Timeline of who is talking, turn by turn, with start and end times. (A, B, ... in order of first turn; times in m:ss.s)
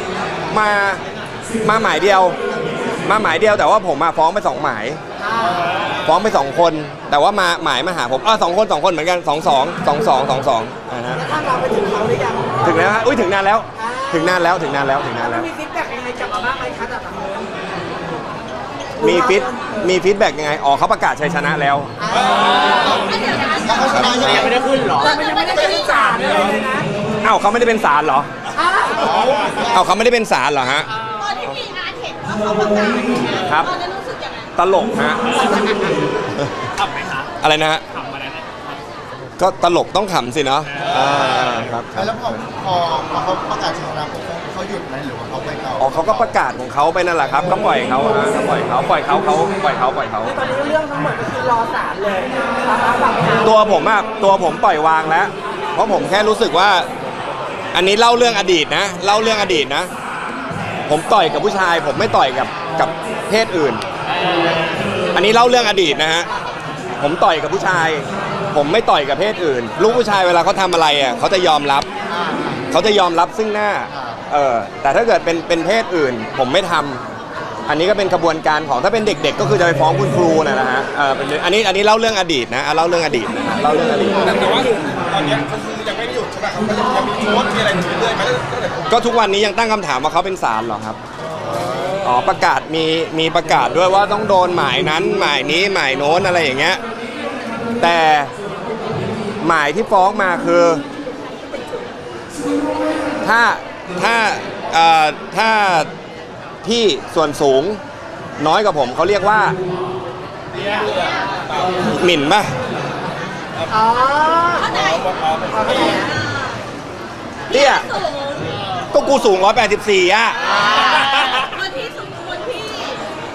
0:00.5-0:01.0 A
0:01.6-0:02.4 A
0:03.0-0:05.0 A
0:05.2-0:05.6 B
0:06.0-0:11.3 A
0:11.2-0:12.5 B
0:12.6-0:15.5 A
0:13.8-0:14.1 B
0:15.5-0:17.5 B
0:19.0-0:21.9 A
0:19.1-0:19.4 B
0:22.0-0:23.0 B
0:22.7-0:26.1 C
0:23.6-0:24.8 D
0:23.9-0:24.5 A
0:25.0-0:26.9 B
0:27.2-0:28.3 A
0:28.6-0:29.2 B
0:29.1-0:29.6 D
0:29.6-0:30.9 A
0:31.1-0:34.5 C
0:33.4-0:33.7 A
0:34.6-0:35.4 A
0:37.4-0:37.8 A
0:39.4-0:42.1 A
0:41.9-0:46.1 D
0:45.8-0:50.4 A
0:50.3-0:53.3 B
0:53.4-0:56.9 A
0:57.7-0:59.9 A
1:00.9-1:03.8 A
1:05.1-1:06.3 A
1:07.0-1:11.9 A
1:12.1-1:12.6 D
1:12.7-1:17.0 A
1:13.9-1:14.2 D
1:17.7-1:24.6 A
1:24.2-1:28.9 E
1:28.9-1:31.0 A
1:32.0-1:36.8 A
1:37.8-1:38.3 A
1:39.4-1:40.8 A
1:43.2-1:45.9 A
1:46.6-1:47.8 A
1:48.4-1:49.6 A
1:50.6-1:51.8 E
1:51.8-1:52.5 A
1:53.7-1:54.6 B
1:54.6-1:55.2 C
1:55.0-1:55.8 E
1:55.5-1:56.0 B
1:55.8-1:56.6 C
1:57.5-1:57.9 A
1:57.5-1:58.6 C
1:58.9-2:00.5 A
2:00.6-2:03.0 C